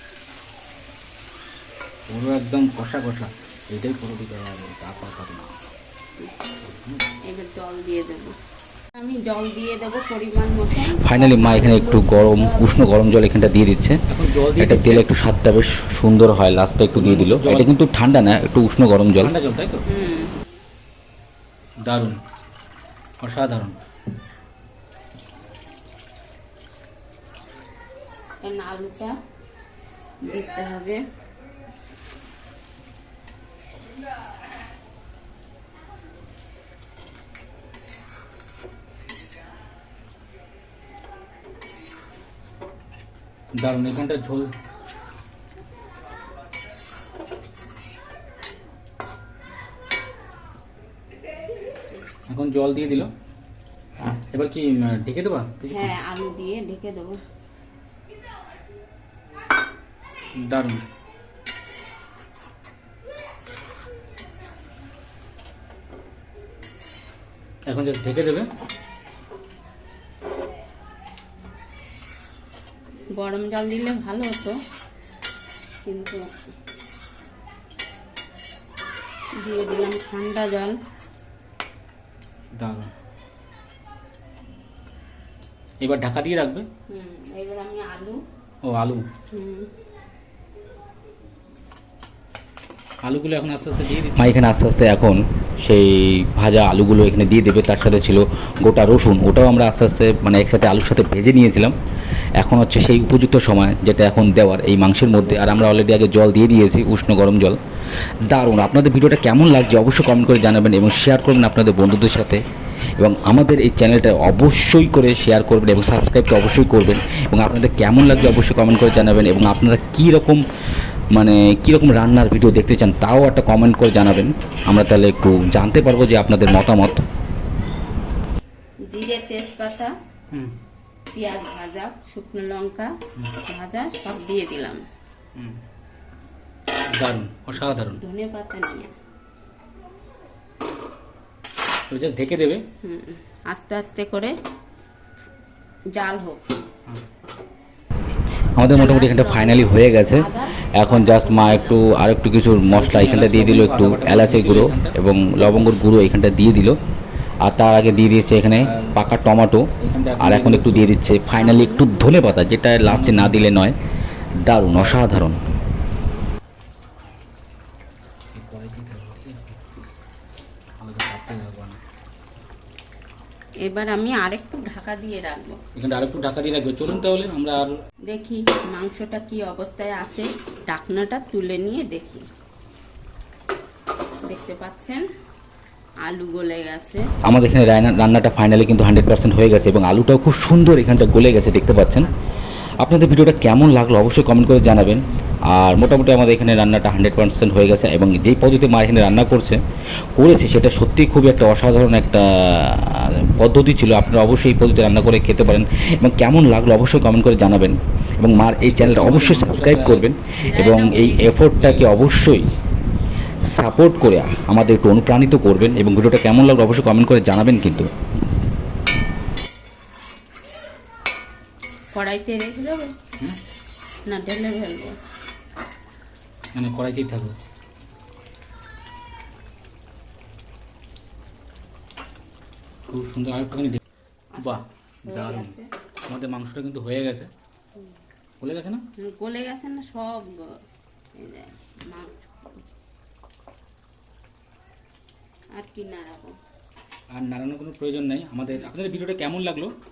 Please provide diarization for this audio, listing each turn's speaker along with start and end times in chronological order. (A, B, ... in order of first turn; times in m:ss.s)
0:02.1-0:05.5 A
0:06.6-0:07.0 A
0:07.3-0:08.4 B
0:09.0-0:12.9 B
0:10.9-0:14.0 C
0:14.1-0:15.1 A
0:14.6-0:19.3 C
0:16.9-0:17.7 A
0:19.2-0:19.8 A
0:19.9-0:20.4 B
0:21.8-0:22.2 A
0:23.2-0:23.8 A
0:28.4-0:29.1 B
0:30.2-0:31.0 B
0:43.5-0:44.5 A
0:52.3-0:53.1 A
0:54.3-0:55.9 A
0:55.7-0:57.2 B
1:00.3-1:00.8 A
1:07.7-1:08.5 A
1:13.2-1:14.6 B
1:15.8-1:16.2 B
1:19.4-1:20.7 B
1:22.6-1:22.9 A
1:25.8-1:26.7 A
1:26.9-1:28.2 B
1:28.7-1:29.0 A
1:29.3-1:29.7 B
1:33.0-1:34.4 A
1:34.2-1:41.7 C
1:42.4-1:47.6 C
1:45.0-1:45.7 B
1:48.2-1:52.4 C
1:53.0-2:00.4 C
2:01.1-2:07.0 C
2:08.9-2:09.9 B
2:11.1-2:12.9 B
2:13.5-2:14.8 B
2:16.9-2:18.0 A
2:17.6-2:18.9 B
2:21.9-2:22.6 A
2:22.8-2:24.3 B
2:25.9-2:26.4 B
2:28.6-2:36.8 C
2:28.7-2:31.9 B
2:32.7-2:35.0 A
2:37.4-2:39.7 C
2:38.6-2:39.0 A
2:39.8-2:41.0 A
2:40.2-2:43.8 C
2:41.3-2:42.4 B
2:42.8-2:43.5 A
2:44.4-2:45.4 C
2:44.7-2:45.0 A
2:48.3-2:49.6 A
2:50.8-2:51.8 A
2:53.6-2:55.6 B
2:55.8-2:57.8 A
2:58.1-3:02.2 B
3:04.2-3:05.0 B
3:06.0-3:07.1 B
3:07.2-3:12.1 C
3:12.8-3:19.6 C
3:20.1-3:32.4 C
3:28.6-3:30.1 A
3:30.4-3:31.4 B
3:31.2-3:32.5 A
3:33.5-3:37.9 C
3:41.9-3:42.9 B
3:44.1-3:45.0 B
3:46.5-3:47.4 A
3:52.9-3:53.8 A
3:54.3-3:55.7 B
3:54.4-3:55.5 A
3:56.1-3:57.3 A
3:58.4-3:58.8 A
3:59.0-4:00.6 B
4:01.2-4:02.1 B
4:05.6-4:06.3 B
4:07.2-4:09.7 A